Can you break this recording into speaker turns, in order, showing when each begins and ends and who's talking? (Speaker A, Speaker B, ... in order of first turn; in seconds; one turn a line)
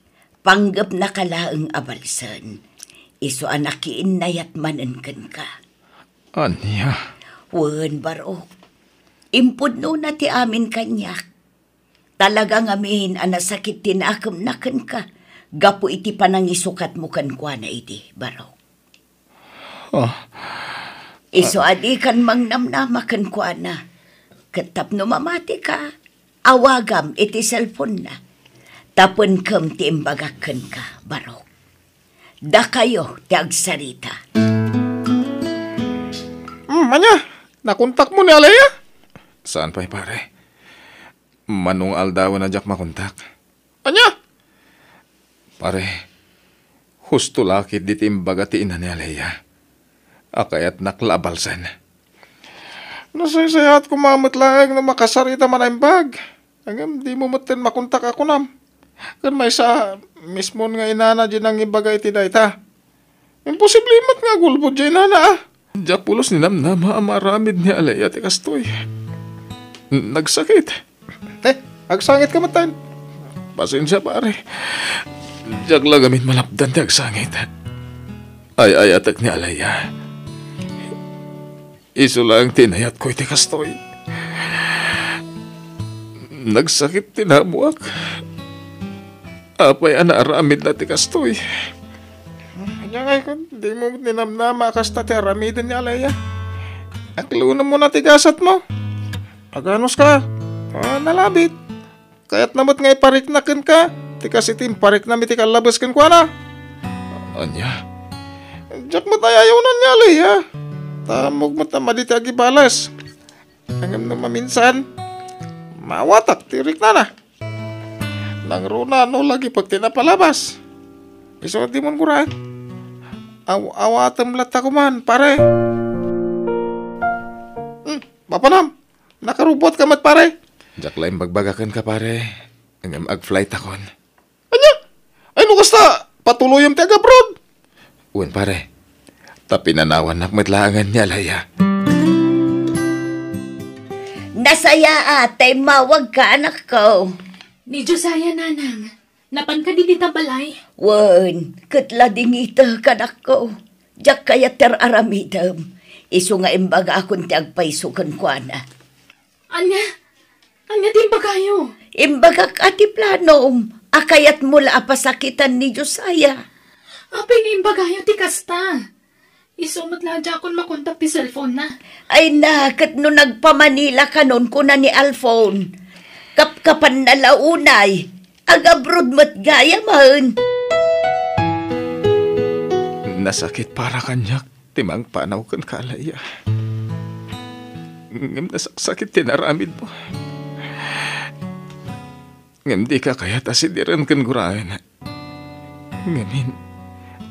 Speaker A: 0.5-2.5
Speaker A: 3.2-5.5
Speaker B: 6.3-7.0
Speaker A: 7.5-8.4
Speaker A: 9.3-11.2
Speaker A: 12.2-15.0
Speaker A: 15.6-18.5
Speaker B: 19.9-20.7
Speaker A: 21.3-23.8
Speaker A: 24.5-25.8
Speaker A: 26.5-28.1
Speaker A: 29.0-31.4
Speaker A: 32.5-34.1
Speaker C: 36.7-38.7
Speaker B: 39.5-40.2
Speaker B: 41.5-43.2
Speaker C: 43.8-44.1
Speaker B: 45.6-45.9
Speaker B: 47.1-49.3
Speaker B: 50.4-51.7
Speaker C: 53.1-58.5
Speaker C: 59.2-62.5
Speaker C: 63.5-65.3
Speaker B: 65.8-68.7
Speaker B: 69.9-70.8
Speaker C: 71.4-72.7
Speaker B: 73.6-77.5
Speaker B: 78.6-79.8
Speaker B: 82.0-83.8
Speaker B: 84.3-85.2
Speaker B: 86.3-87.9
Speaker B: 89.6-91.4
Speaker C: 92.6-96.1
Speaker C: 97.2-98.6
Speaker C: 99.5-100.2
Speaker C: 100.7-101.5
Speaker C: 102.3-106.3
Speaker B: 107.3-107.8
Speaker C: 108.7-110.4
Speaker C: 111.1-112.9
Speaker C: 113.8-114.8
Speaker C: 115.8-117.1
Speaker C: 118.5-120.5
Speaker C: 121.4-122.3
Speaker C: 123.5-125.4
Speaker C: 127.8-128.7
Speaker C: 129.2-130.3
Speaker B: 130.8-132.2
Speaker B: 132.8-133.8
Speaker C: 134.5-134.8
Speaker C: 135.4-137.3
Speaker B: 138.1-138.6
Speaker B: 139.5-141.4
Speaker A: 144.4-147.0
Speaker D: 147.7-150.6
Speaker A: 150.8-153.5
Speaker A: 154.0-155.6
Speaker A: 156.1-158.6
Speaker D: 159.5-159.8
Speaker D: 160.7-161.7
Speaker A: 162.0-166.3
Speaker D: 167.1-168.8
Speaker D: 169.6-171.7
Speaker A: 172.1-175.7
Speaker A: 176.4-180.3
Speaker B: 183.1-186.2
Speaker B: 188.1-189.9
Speaker B: 192.7-194.8
Speaker B: 196.1-196.5